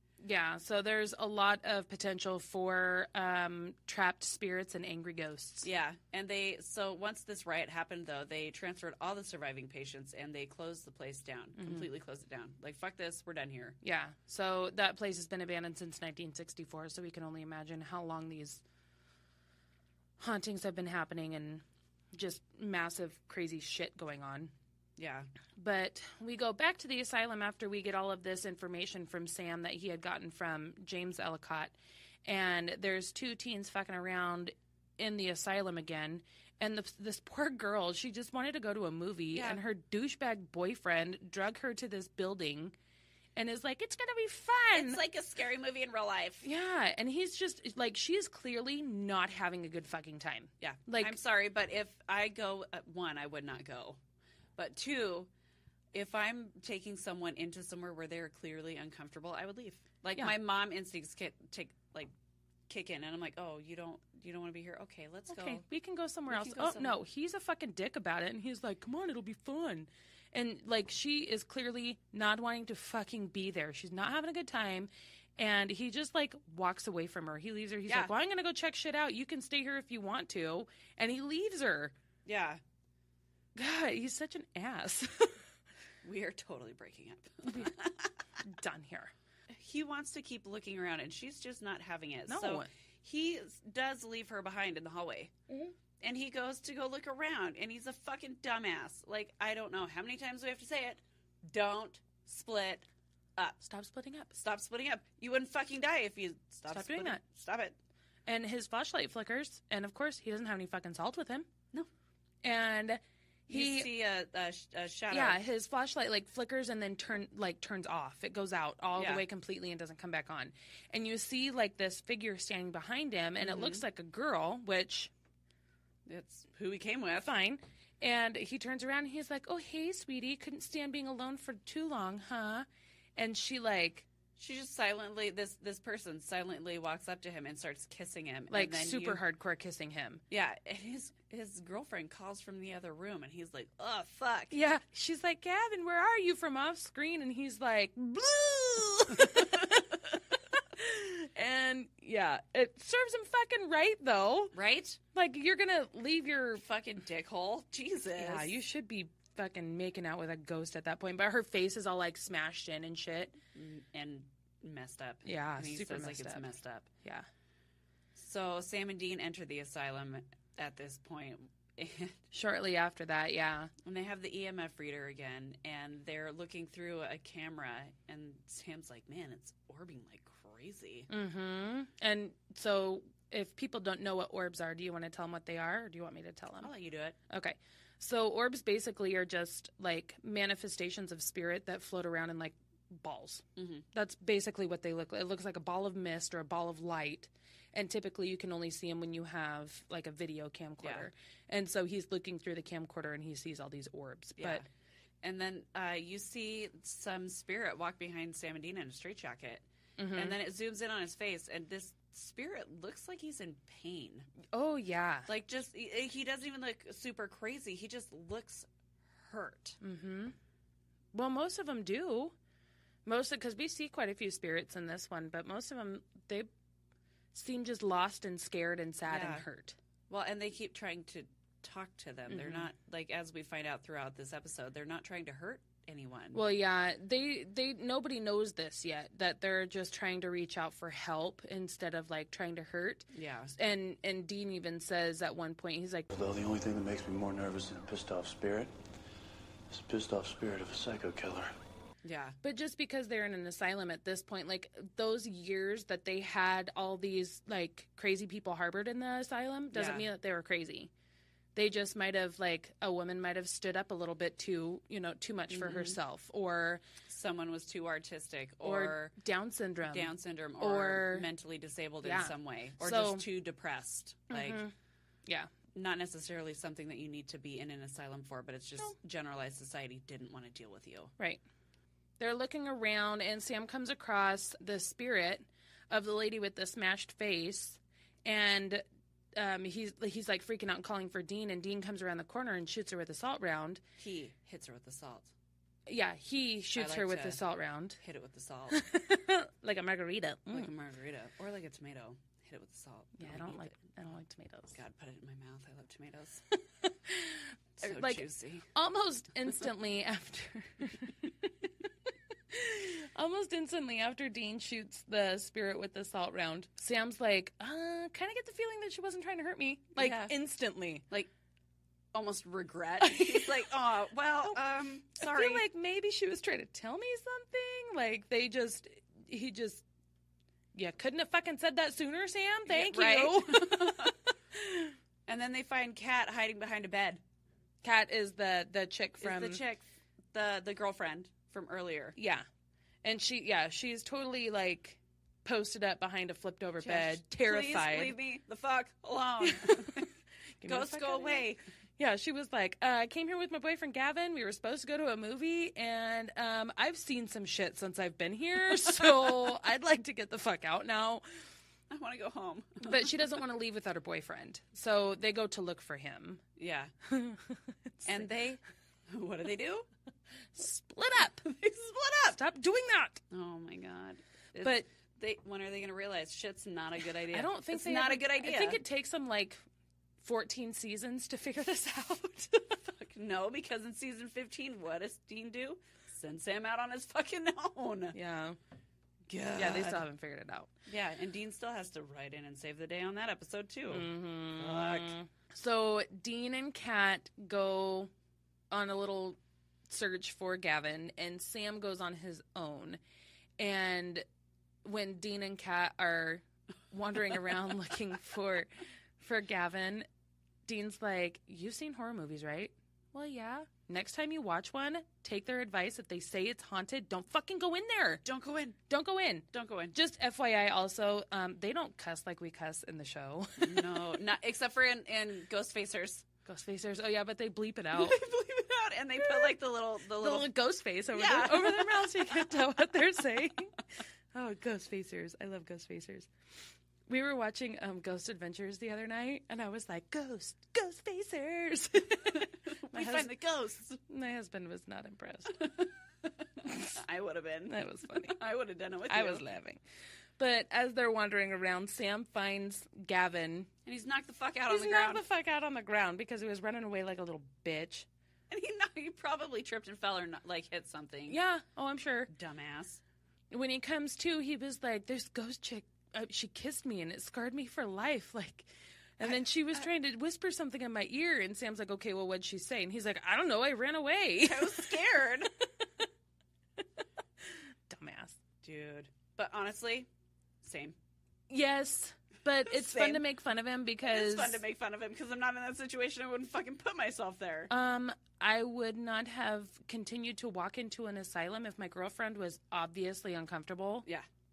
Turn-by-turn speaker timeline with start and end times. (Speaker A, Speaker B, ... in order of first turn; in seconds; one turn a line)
Speaker A: 0.2-5.7
Speaker B: 5.6-13.8
Speaker A: 11.6-11.8
Speaker A: 13.8-18.6
Speaker A: 20.2-24.5
Speaker B: 25.0-25.3
Speaker A: 25.6-42.7
Speaker B: 39.3-39.6
Speaker A: 43.3-45.0
Speaker B: 44.7-46.4
Speaker A: 46.4-51.2
Speaker B: 50.6-54.0
Speaker B: 54.5-55.3
Speaker B: 55.9-62.1
Speaker B: 62.7-65.6
Speaker A: 65.3-81.9
Speaker B: 66.3-67.0
Speaker B: 77.9-78.1
Speaker B: 82.2-82.6
Speaker A: 83.5-85.4
Speaker B: 86.0-88.1
Speaker A: 87.4-87.7
Speaker A: 88.4-89.1
Speaker B: 89.5-95.3
Speaker A: 92.3-92.7
Speaker A: 95.5-95.7
Speaker B: 96.0-102.8
Speaker A: 103.6-104.3
Speaker B: 104.3-107.8
Speaker A: 106.7-107.2
Speaker A: 108.2-111.5
Speaker A: 112.4-113.9
Speaker B: 113.5-115.4
Speaker A: 115.1-125.1
Speaker B: 119.0-119.2
Speaker B: 123.4-123.8
Speaker B: 126.1-127.3
Speaker A: 127.2-134.1
Speaker B: 134.4-139.2
Speaker A: 138.5-140.2
Speaker B: 140.3-144.6
Speaker A: 144.5-154.5
Speaker B: 154.5-155.0
Speaker A: 155.1-156.6
Speaker B: 156.5-158.5
Speaker A: 158.2-163.4
Speaker B: 163.5-166.9
Speaker A: 165.2-167.2
Speaker B: 168.2-172.2
Speaker A: 172.3-173.7
Speaker B: 173.8-181.1
Speaker A: 181.1-186.7
Speaker B: 186.6-187.2
Speaker A: 187.3-204.7
Speaker B: 193.6-193.8
Speaker B: 200.8-201.1
Speaker B: 204.4-204.7
Speaker B: 205.2-214.3
Speaker A: 210.0-210.3
Speaker A: 214.5-215.3
Speaker B: 215.2-219.8
Speaker A: 219.8-220.3
Speaker A: 221.1-222.3
Speaker A: 223.1-226.5
Speaker A: 227.3-229.8
Speaker B: 229.1-229.4
Speaker B: 230.1-236.4
Speaker A: 232.3-232.7
Speaker A: 236.3-246.1
Speaker B: 243.1-243.5
Speaker C: 246.1-248.7
Speaker C: 249.7-251.5
Speaker B: 252.0-252.4
Speaker A: 252.4-260.9
Speaker B: 259.7-260.1
Speaker A: 261.5-266.8
Speaker B: 265.5-266.0
Speaker B: 267.1-269.1
Speaker A: 268.6-271.3
Speaker B: 269.9-274.6
Speaker A: 272.0-273.2
Speaker A: 274.3-274.7
Speaker B: 275.7-281.1
Speaker A: 282.2-293.8
Speaker B: 294.0-295.3
Speaker A: 295.9-298.0
Speaker B: 296.7-297.4
Speaker B: 298.0-298.8
Speaker A: 298.7-300.7
Speaker B: 300.5-303.9
Speaker A: 303.2-304.8
Speaker B: 304.7-306.4
Speaker A: 306.8-311.7
Speaker B: 307.8-308.7
Speaker A: 312.5-321.0
Speaker B: 320.0-320.3
Speaker B: 322.1-325.6
Speaker A: 323.0-323.5
Speaker A: 325.2-329.8
Speaker A: 330.7-334.9
Speaker B: 332.7-334.2
Speaker B: 335.2-337.2
Speaker A: 337.8-339.6
Speaker B: 339.2-342.1
Speaker A: 342.1-342.4
Speaker A: 343.0-348.1
Speaker B: 346.8-350.1
Speaker A: 349.4-350.0
Speaker A: 350.6-351.5
Speaker B: 350.6-351.6
Speaker A: 352.0-361.5
Speaker B: 361.9-363.2
Speaker A: 362.8-366.4
Speaker B: 366.6-366.9
Speaker A: 367.0-368.3
Speaker B: 368.0-369.9
Speaker A: 370.5-371.4
Speaker B: 371.4-372.4
Speaker A: 372.3-373.2
Speaker B: 373.3-378.8
Speaker A: 374.6-374.9
Speaker A: 377.3-379.6
Speaker A: 380.2-382.5
Speaker B: 382.6-388.1
Speaker A: 388.1-388.6
Speaker B: 389.3-390.0
Speaker A: 389.5-390.7
Speaker B: 390.9-395.1
Speaker A: 393.9-398.1
Speaker A: 398.7-403.0
Speaker A: 403.6-404.2
Speaker A: 404.8-410.1
Speaker A: 410.6-418.2
Speaker B: 418.2-418.8
Speaker A: 418.9-424.0
Speaker B: 419.5-420.0
Speaker B: 423.6-426.2
Speaker A: 426.4-428.2
Speaker B: 427.9-430.5
Speaker A: 429.2-429.5
Speaker A: 430.2-433.8
Speaker B: 431.1-432.5
Speaker A: 434.3-436.3
Speaker A: 437.1-443.3
Speaker B: 442.3-444.0
Speaker A: 444.1-445.7
Speaker B: 445.6-445.9
Speaker B: 446.6-449.4
Speaker A: 446.6-447.0
Speaker A: 447.6-448.4
Speaker A: 449.1-449.8
Speaker A: 450.4-453.7
Speaker B: 453.8-455.2
Speaker A: 454.7-458.1
Speaker B: 458.5-461.4
Speaker A: 461.3-462.3
Speaker B: 462.3-463.0
Speaker A: 463.5-474.9
Speaker B: 469.2-469.8
Speaker B: 474.4-475.5
Speaker A: 475.6-476.0
Speaker A: 477.4-478.4
Speaker B: 478.6-480.1
Speaker B: 480.6-480.9
Speaker A: 481.5-484.6
Speaker B: 482.7-483.2
Speaker B: 484.1-487.7
Speaker A: 487.7-494.1